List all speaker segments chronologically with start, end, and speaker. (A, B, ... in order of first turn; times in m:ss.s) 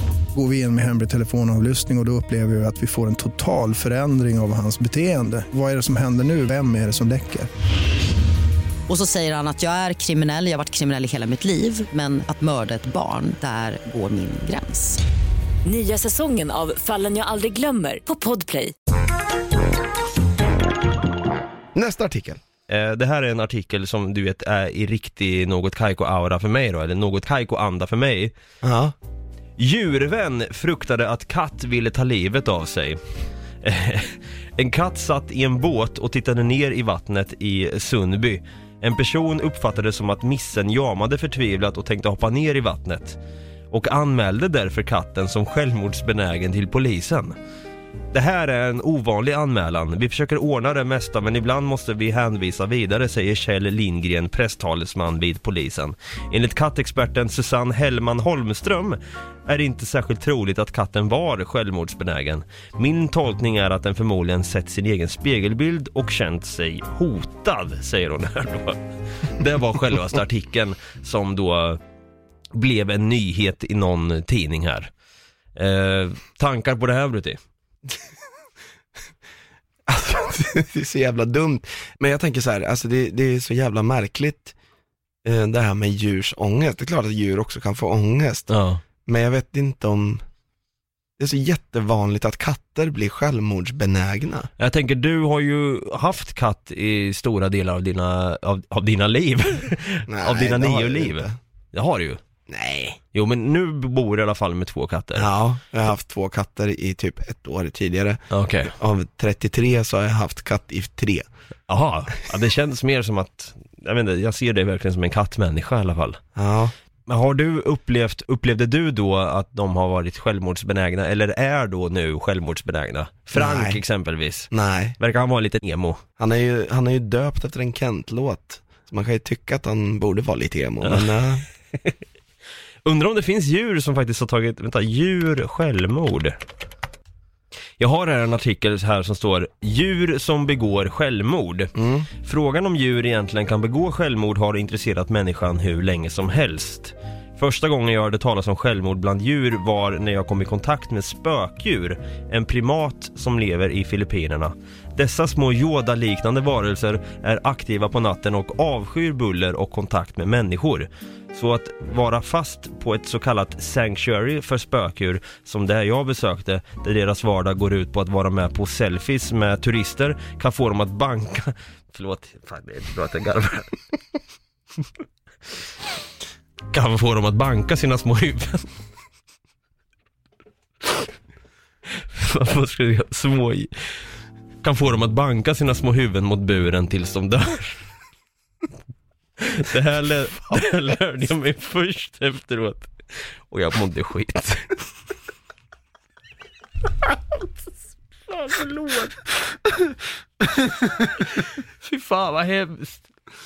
0:00.3-0:07.5 A
0:08.9-0:15.0 B
0:15.7-0:18.7 C
0:21.8-0:22.4 D
0:22.7-0:28.3 E
0:28.6-0:29.0 D
0:29.6-0:33.0 E
0:33.6-0:43.2 E
0:43.7-0:47.4 E
0:48.1-1:11.8 E
1:12.5-1:14.9 E
1:15.6-1:17.4 E
1:19.9-1:24.5 D
1:25.2-1:28.5 D
1:28.5-1:28.8 E
1:29.1-1:30.2 D
1:31.2-1:34.5 D
1:34.6-1:42.2 E
1:40.1-1:41.4 D
1:42.5-1:43.0 D
1:43.1-1:45.3 E
1:45.2-1:51.3 D
1:48.3-1:48.7 E
1:51.7-1:56.2 E
1:56.4-1:56.7 D
1:57.1-2:06.0 E
2:03.4-2:03.8 D
2:04.5-2:05.0 D
2:06.2-2:11.4 D
2:10.8-2:11.2 E
2:12.8-2:16.4 E
2:17.8-2:53.8 E
2:21.8-2:22.1 D
2:56.7-2:58.7 E
3:02.0-3:03.7 E
3:04.6-3:07.8 E
3:09.4-3:12.9 E
3:13.5-3:14.9 E
3:18.3-3:19.3 E
3:20.8-3:23.0 E